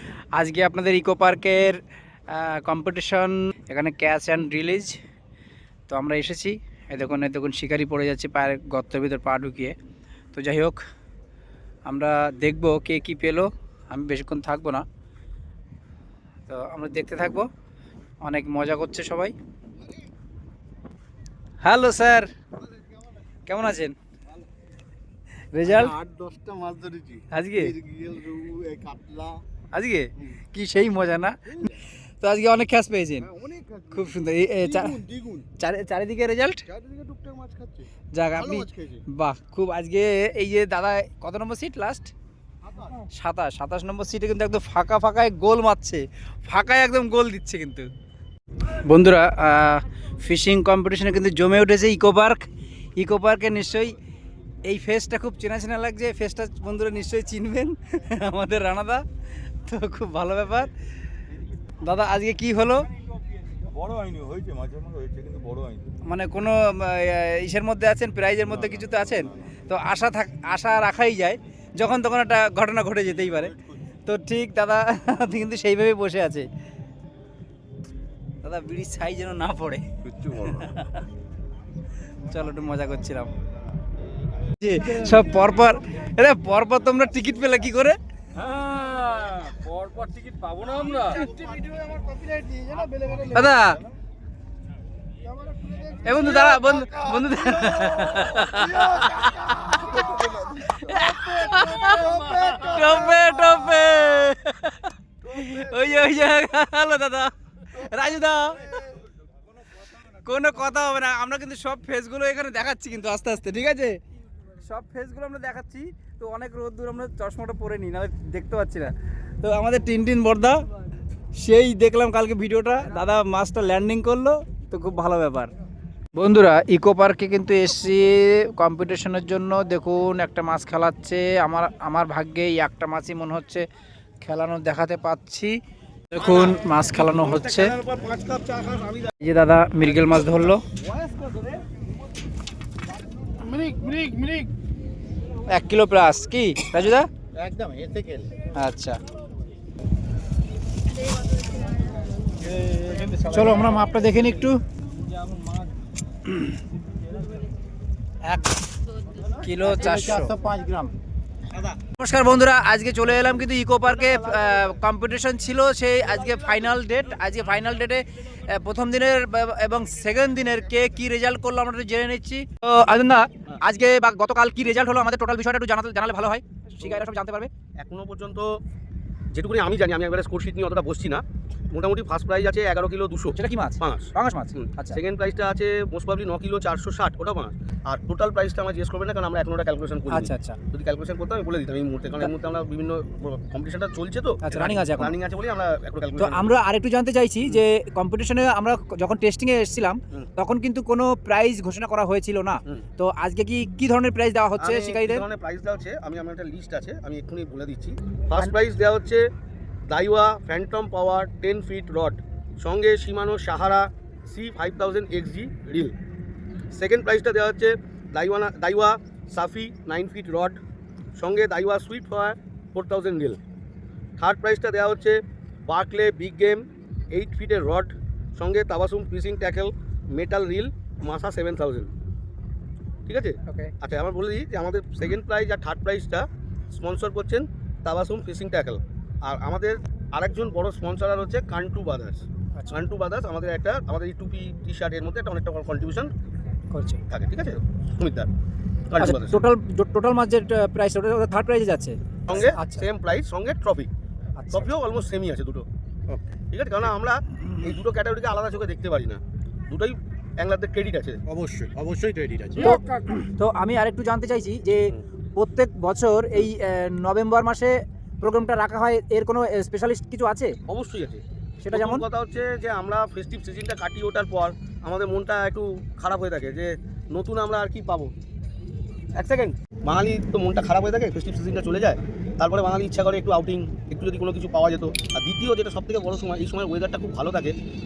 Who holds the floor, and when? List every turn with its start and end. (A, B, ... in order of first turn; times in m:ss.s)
0:00.4-0:01.8 A
0:02.3-0:05.0 A
0:05.9-0:09.8 A
0:10.3-0:10.8 A
0:11.9-0:14.9 A
0:16.5-0:17.5 A
0:18.2-0:19.3 A
0:21.6-0:22.3 A
0:23.5-0:24.0 A
0:25.5-0:26.0 A
0:26.2-0:27.2 B
0:27.3-0:27.8 A
0:27.8-0:29.4 B
0:29.7-0:33.3 A
0:33.4-0:33.8 B
0:33.9-0:35.0 A
0:35.1-0:35.4 B
0:35.6-0:36.6 A
0:36.7-0:37.9 B
0:38.1-0:42.1 A
0:38.5-0:39.0 B
0:43.1-0:47.9 A
0:48.8-0:52.4 A
0:53.0-0:54.0 A
0:54.7-0:59.0 A
0:59.7-1:00.7 A
1:01.8-1:02.9 A
1:03.7-1:05.9 C
1:06.0-1:16.5 A
1:18.4-1:21.0 A
1:22.3-1:23.3 A
1:24.6-1:28.0 A
1:28.6-1:31.2 C
1:32.2-1:32.9 D
1:33.2-1:33.8 A
1:36.0-1:48.8 A
1:42.2-1:42.6 B
1:50.0-1:54.0 A
1:54.6-2:00.6 A
2:01.4-2:05.5 A
2:06.2-2:13.6 A
2:14.2-2:15.6 A
2:16.1-2:17.8 A
2:16.2-2:16.6 B
2:17.1-2:19.1 B
2:19.2-2:20.6 A
2:23.5-2:24.4 D
2:25.5-2:27.1 A
2:27.4-2:28.3 D
2:28.6-2:29.0 A
2:32.4-2:33.4 D
2:33.1-2:34.6 A
2:39.4-2:40.3 A
2:39.7-2:40.9 D
2:42.0-2:57.5 A
2:57.8-2:58.6 B
2:59.3-3:16.6 B
3:03.4-3:05.0 A
3:10.1-3:10.6 A
3:14.4-3:15.2 A
3:16.2-3:25.2 A
3:24.6-3:29.2 B
3:29.9-3:36.0 B
3:36.7-3:40.6 B
3:41.2-3:43.4 B
3:44.2-3:51.9 B
3:53.1-4:06.1 B
3:53.5-3:53.7 A
4:06.7-4:07.0 A
4:07.1-4:08.3 B
4:08.9-4:09.4 B
4:09.0-4:12.9 A
4:12.3-4:13.9 B
4:14.4-4:14.7 A
4:14.5-4:15.7 B
4:16.5-4:21.2 B
4:21.3-4:22.8 D
4:22.6-4:30.5 A
4:30.7-4:38.1 B
4:31.6-4:32.0 A
4:39.2-4:47.6 B